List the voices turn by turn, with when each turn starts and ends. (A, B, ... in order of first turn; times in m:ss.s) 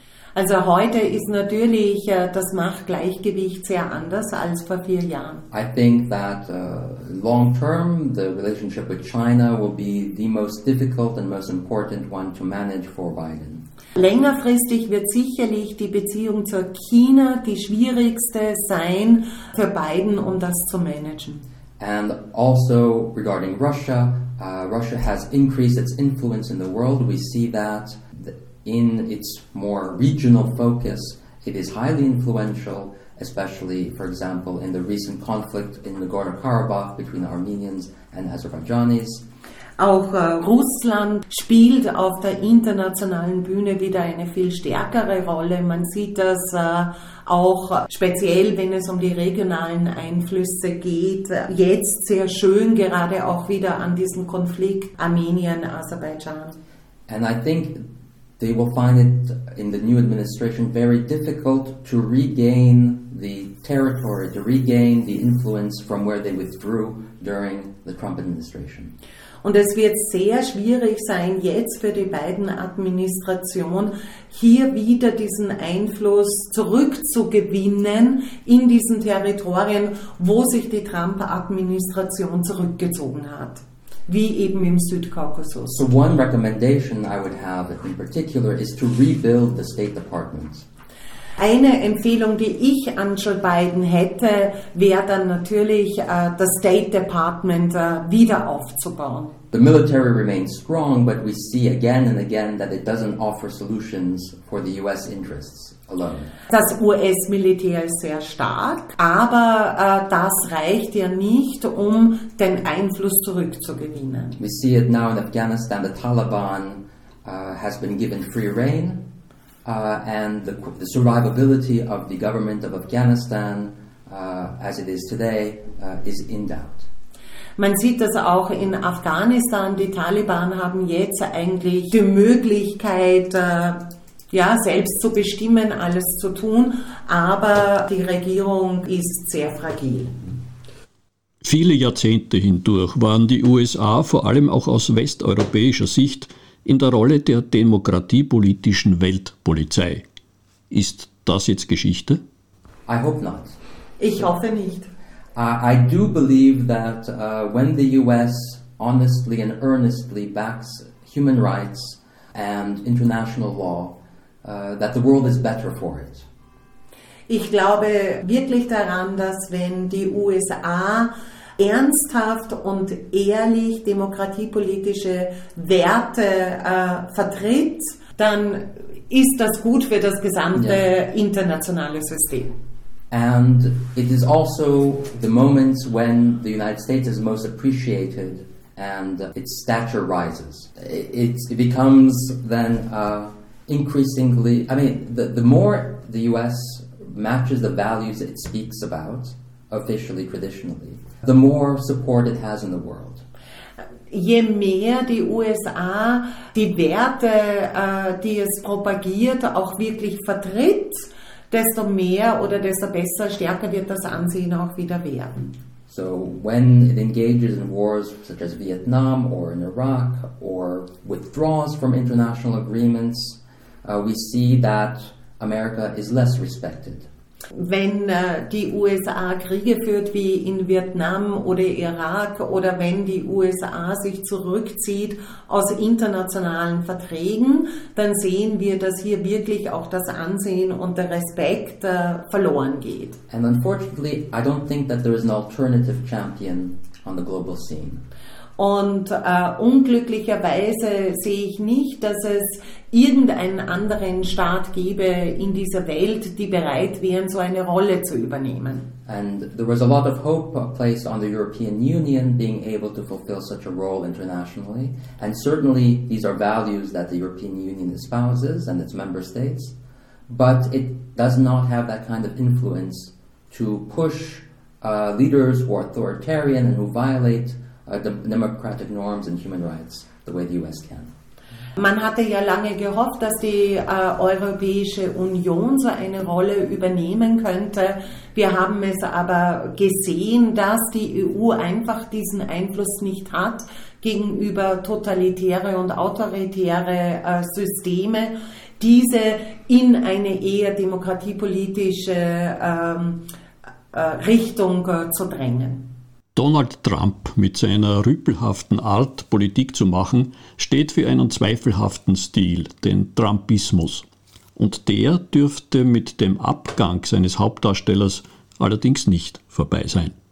0:00.3-0:05.4 A
0:05.5-0:13.6 B
0:13.9-0:21.4 A
0:21.8-0:39.2 B
0:39.8-0:56.6 A
0:57.1-0:57.9 B
0:58.4-1:08.9 B
1:09.4-1:25.8 A
1:25.7-1:30.7 B
1:31.4-1:39.3 A
1:39.5-1:46.3 B
1:46.5-1:54.4 A
1:54.4-1:59.0 B
1:59.6-2:06.9 B
2:07.6-2:20.2 A
2:21.4-2:30.0 C
2:30.7-2:32.2 C
2:32.9-2:33.6 B
2:34.0-2:34.9 A
2:35.3-2:46.3 B
2:47.3-3:02.5 A
3:03.1-3:23.2 B
3:24.1-3:35.5 A
3:35.9-3:47.1 B
3:47.5-4:03.2 A
4:03.3-4:08.0 B
4:08.6-4:18.9 A
4:19.0-4:29.7 B
4:30.3-4:41.1 B
4:41.8-5:03.2 A
5:03.9-5:05.9 A
5:06.3-5:14.0 C
5:14.6-5:20.1 C